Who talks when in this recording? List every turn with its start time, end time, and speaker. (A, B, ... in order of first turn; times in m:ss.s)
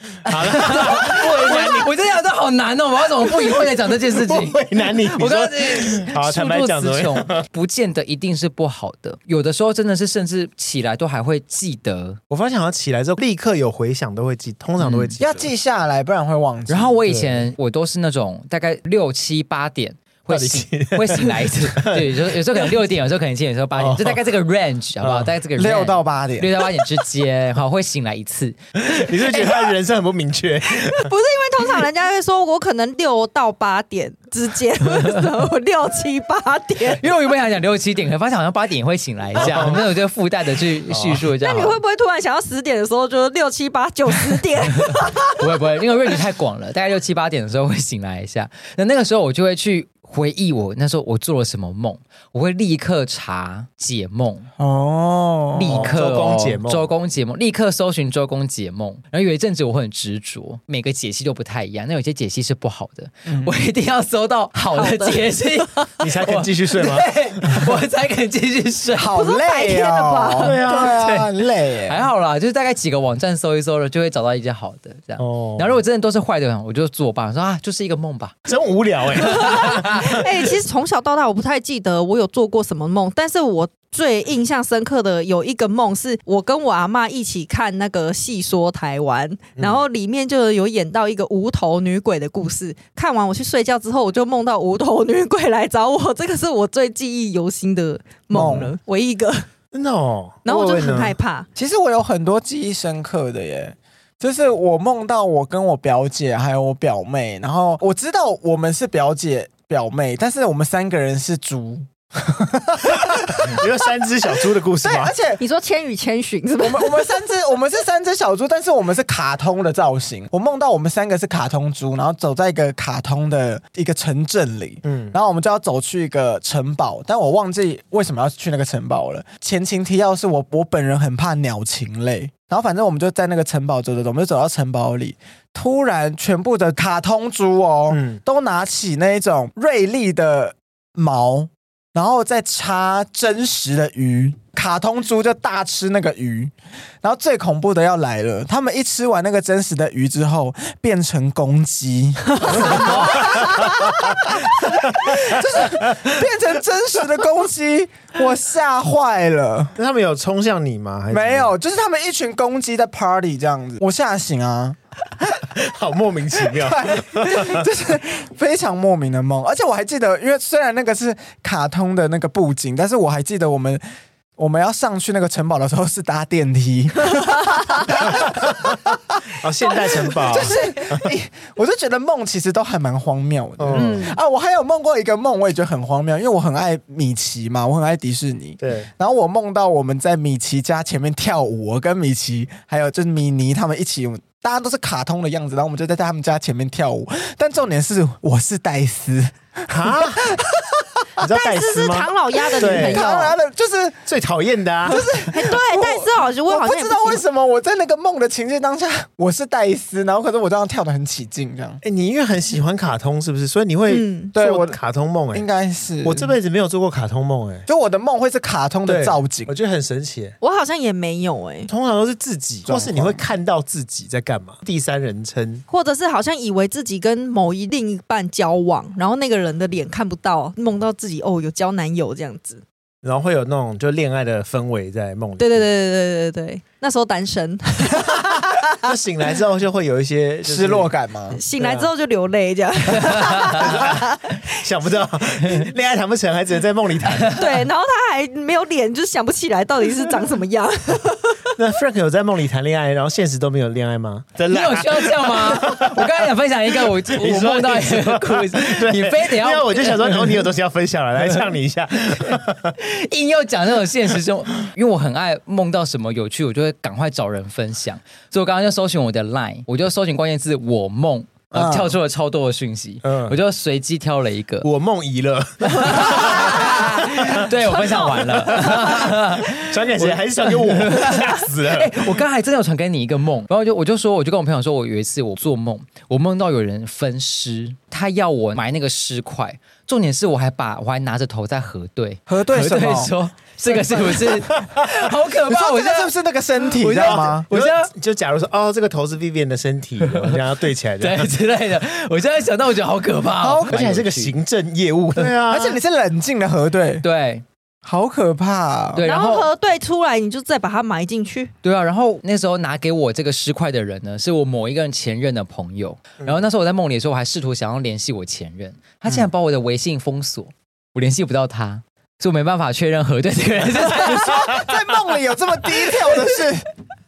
0:00.2-0:01.9 A
0:00.2-0:12.2 B
0:04.2-0:07.5 A
0:12.3-0:15.5 A
0:14.8-0:15.2 B
0:15.2-0:17.0 C
0:16.7-0:28.6 B
0:17.1-0:17.5 A
0:20.3-0:22.7 A
0:23.8-0:24.2 A
0:25.0-0:25.3 A
0:25.6-0:26.6 C
0:28.8-0:31.1 A
0:29.2-0:29.7 D
0:30.7-0:37.0 D
0:34.9-0:35.2 B
0:36.9-0:41.8 B
0:39.4-0:39.9 A
0:40.9-0:41.2 A
0:41.4-0:45.5 D
0:44.8-0:54.5 B
0:54.6-0:55.9 C
0:55.5-1:09.1 B
0:55.7-0:56.9 A
1:03.3-1:03.5 C
1:04.6-1:05.8 D
1:06.0-1:07.7 A
1:09.0-1:12.1 C
1:09.1-1:10.5 D
1:10.4-1:11.2 A
1:10.7-1:11.3 B
1:11.8-1:18.4 B
1:15.2-1:15.8 A
1:18.5-1:20.2 A
1:19.2-1:20.0 B
1:19.2-1:39.5 D
1:29.6-1:29.8 A
1:38.3-1:38.7 C
1:38.3-1:38.7 A
1:39.7-1:41.2 A
1:40.4-1:41.5 D
1:41.6-1:53.7 C
1:52.9-1:55.1 A
1:54.8-1:55.4 C
1:55.4-1:57.3 D
1:56.6-2:39.8 C
2:04.8-2:05.2 A
2:17.9-2:18.2 A
2:32.4-2:33.9 D
2:32.6-2:34.2 A
2:34.9-2:36.2 A
2:39.8-2:41.5 A
2:41.1-2:44.8 C
2:45.3-2:47.6 A
2:46.4-2:53.8 C
2:54.4-2:59.2 C
2:58.1-2:58.8 A
2:59.4-3:01.1 A
2:59.7-3:00.8 D
2:59.8-3:21.0 C
3:03.6-3:04.2 A
3:03.7-3:04.1 B
3:08.6-3:08.9 A
3:19.7-3:20.4 A
3:21.2-3:23.1 A
3:21.3-3:23.4 D
3:22.7-3:24.0 C
3:24.1-3:25.1 A
3:24.8-3:31.8 C
3:24.9-3:27.2 D
3:31.8-3:35.5 A
3:33.9-3:34.3 D
3:34.4-3:34.8 C
3:35.3-3:36.4 C
3:36.0-3:37.7 A
3:37.7-3:39.5 C
3:38.9-3:40.4 A
3:40.4-3:41.7 D
3:41.7-3:45.6 A
3:42.7-3:43.2 C
3:45.7-3:52.6 D
3:53.0-3:55.7 A
3:55.4-3:58.9 D
3:58.7-4:00.9 A
4:00.4-4:01.4 C
4:01.3-4:04.4 D
4:01.6-4:01.9 A
4:03.5-4:07.5 A
4:07.1-4:07.5 B
4:07.4-4:11.5 D
4:11.6-4:16.1 A
4:14.5-4:20.4 B
4:16.8-4:22.8 A
4:22.3-4:34.7 B
4:31.5-4:32.0 C
4:33.0-4:33.4 A
4:34.6-4:42.2 A
4:35.7-4:56.1 B
4:36.2-4:36.9 D
4:37.7-4:38.9 D
4:52.3-4:53.1 C
4:53.6-4:54.4 D
4:55.5-4:57.5 C
4:56.8-4:57.9 B
4:57.0-5:01.3 A
5:00.0-5:00.4 B
5:01.0-5:04.3 B
5:03.4-5:03.8 C
5:03.7-5:05.8 A
5:05.3-5:07.0 C
5:07.0-5:07.4 B
5:07.8-5:09.1 C
5:08.9-5:09.5 B
5:09.0-5:11.5 D
5:11.6-5:24.4 B
5:23.8-5:26.7 C